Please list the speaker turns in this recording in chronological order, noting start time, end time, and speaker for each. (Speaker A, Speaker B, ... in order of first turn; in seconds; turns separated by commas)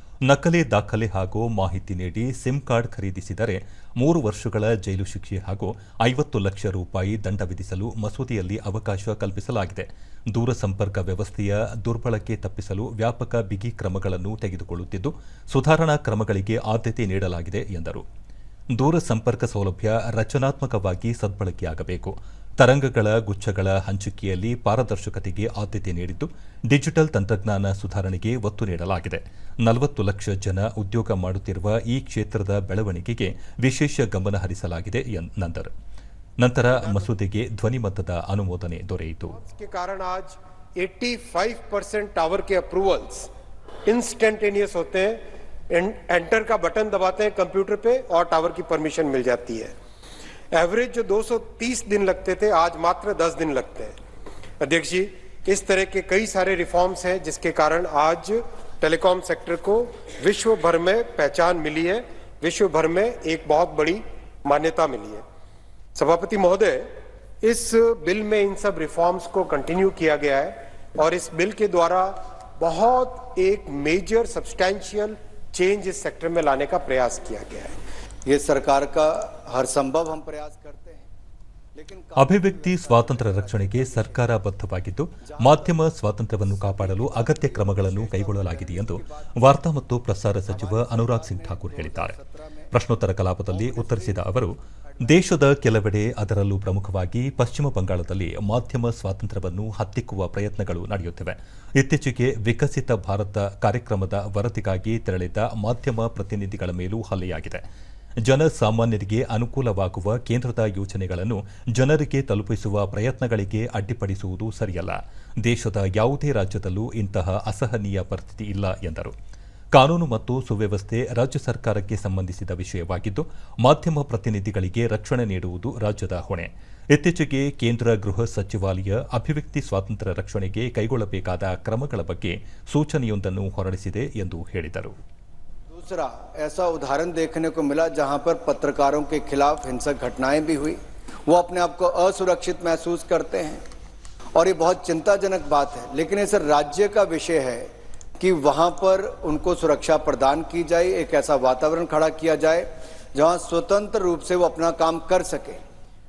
Speaker A: 0.2-18.0, Speaker A: 18.7-35.7, Speaker A: 36.4-39.4, Speaker B: 36.8-37.1, Speaker B: 39.3-43.3, Speaker B: 43.9-45.2, Speaker B: 45.7-49.7, Speaker B: 50.5-53.9, Speaker B: 54.6-65.2, Speaker B: 66.0-66.9, Speaker B: 67.4-77.8, Speaker C: 78.3-81.1, Speaker C: 81.7-84.2, Speaker A: 82.2-92.2, Speaker C: 85.2-89.5, Speaker C: 90.5-92.7, Speaker A: 92.7-107.6, Speaker C: 93.5-95.2, Speaker A: 108.2-119.1, Speaker A: 119.7-134.9, Speaker C: 135.7-143.6, Speaker C: 144.3-152.7, Speaker C: 153.2-155.6